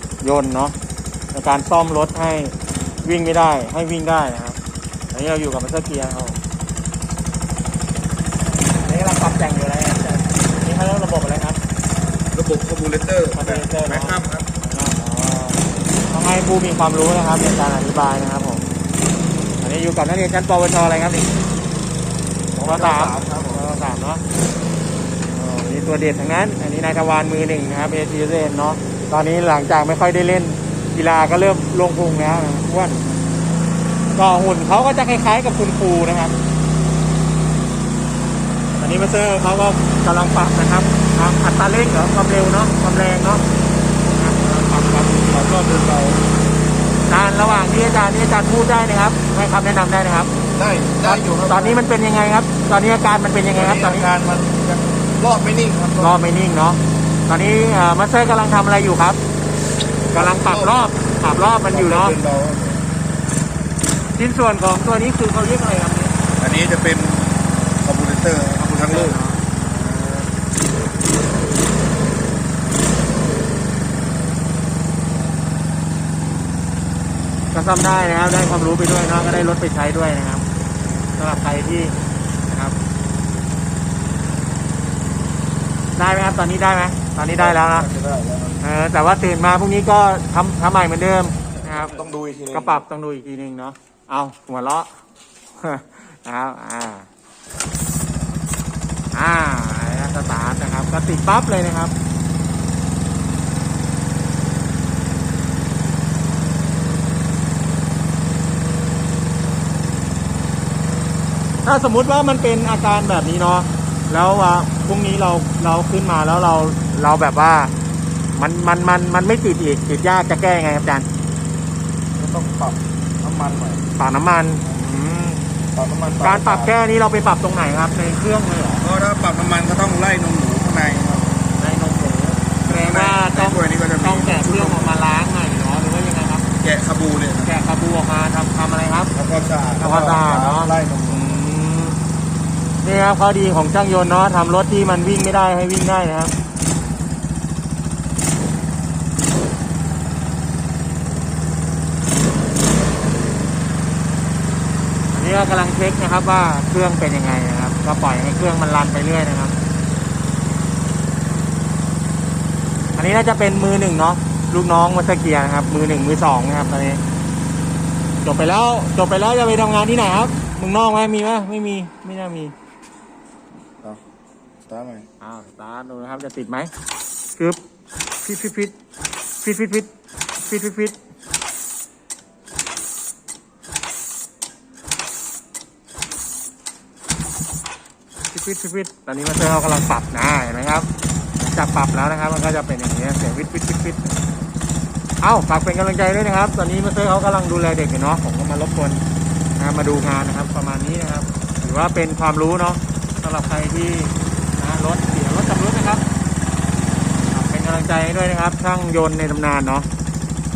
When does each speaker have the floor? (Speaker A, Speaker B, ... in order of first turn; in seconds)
Speaker A: 0.2-0.7, 1.3-4.6, 5.1-6.4, 8.8-11.6, 13.3-18.6, 19.6-21.3, 22.6-24.2, 25.3-33.2, 34.1-36.3, 38.8-43.4, 44.1-45.5, 47.1-50.3, 51.0-54.1, 56.0-59.2, 60.1-62.1, 64.2-66.1, 68.5-70.2, 77.5-80.4, 81.2-81.9, 82.5-82.8, 86.0-87.9, 88.6-92.0, 92.5-94.9, 95.6-97.1, 99.1-101.9, 111.6-117.7, 118.3-121.1, 124.0-125.4, 126.2-128.8, 131.6-136.4, 137.4-139.1, 139.8-142.0, 142.8-146.3, 155.1-159.5, 163.0-167.0, 168.2-172.5, 175.2-176.7, 178.2-178.7, 179.4-179.9, 180.4-181.0, 188.3-190.9, 191.4-194.1, 195.2-199.0, 199.6-206.0, 207.3-209.9
Speaker B: 12.3-14.5, 22.6-23.6, 45.3-46.2, 50.5-51.9, 53.5-56.2, 60.1-60.8, 61.6-62.8, 66.4-69.2, 87.3-88.6, 91.9-92.8, 122.2-123.8, 125.7-126.7, 128.8-131.4, 132.6-135.0, 136.6-137.5, 139.1-141.4, 174.6-175.1